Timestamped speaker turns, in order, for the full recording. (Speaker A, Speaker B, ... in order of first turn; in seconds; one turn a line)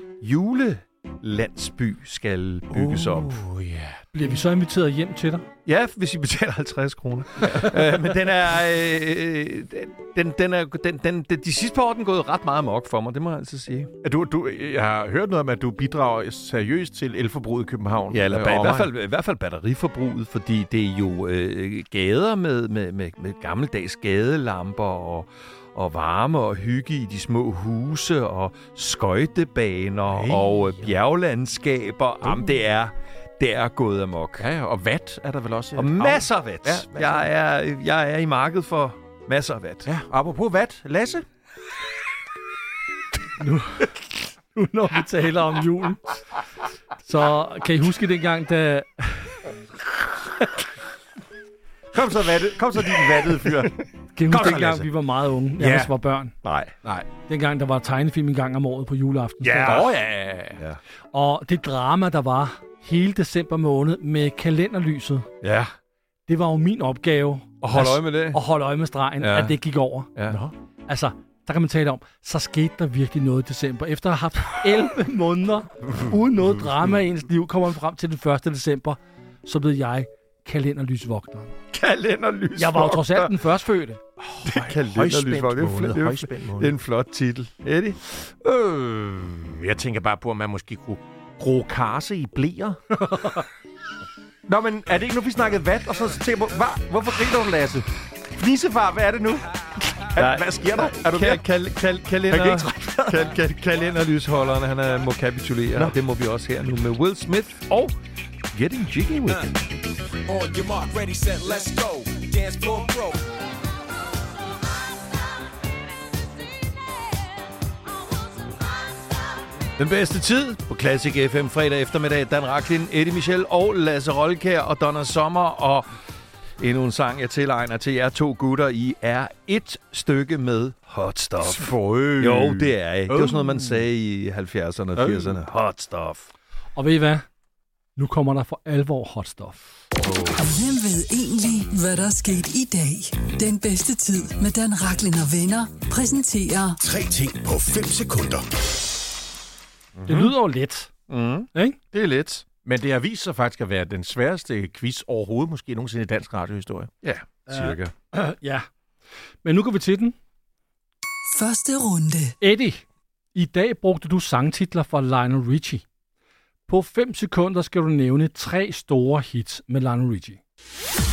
Speaker A: 0.2-3.4
Speaker B: 2.7-4.0
Speaker C: 4.1-5.5
Speaker A: 5.7-13.9
Speaker B: 14.0-18.9
Speaker A: 18.1-34.5
Speaker B: 30.1-30.5
Speaker B: 32.2-32.6
Speaker B: 34.4-37.3
Speaker A: 35.7-39.9
Speaker B: 39.9-41.2
Speaker C: 43.4-46.1
Speaker C: 47.0-50.6
Speaker B: 51.9-54.9
Speaker C: 54.1-56.3
Speaker B: 55.6-55.9
Speaker B: 56.8-57.1
Speaker C: 57.2-59.9
Speaker A: 59.4-59.9
Speaker B: 59.6-60.6
Speaker C: 61.1-65.3
Speaker A: 65.4-65.7
Speaker C: 66.3-70.1
Speaker A: 67.6-68.4
Speaker A: 69.2-69.6
Speaker B: 70.3-70.5
Speaker C: 70.9-81.5
Speaker A: 81.7-83.4
Speaker C: 82.5-84.0
Speaker B: 84.2-86.8
Speaker A: 84.4-88.0
Speaker B: 88.4-93.1
Speaker B: 94.5-101.4
Speaker A: 100.2-108.0
Speaker B: 102.3-103.3
Speaker A: 108.5-109.7
Speaker D: 110.2-113.2
Speaker A: 119.8-125.9
Speaker A: 126.6-136.3
Speaker B: 131.4-133.8
Speaker B: 134.9-135.3
Speaker C: 136.8-137.2
Speaker C: 137.9-139.6
Speaker E: 140.3-146.8
Speaker B: 146.8-148.5
Speaker A: 149.9-150.3
Speaker C: 150.1-150.9
Speaker A: 151.1-152.4
Speaker C: 151.5-151.8
Speaker B: 152.6-156.9
Speaker A: 157.0-157.9
Speaker C: 157.5-158.7
Speaker C: 159.4-160.1
Speaker E: 161.3-162.3
Speaker C: 162.4-162.8
Speaker C: 163.3-165.8
Speaker C: 166.7-170.4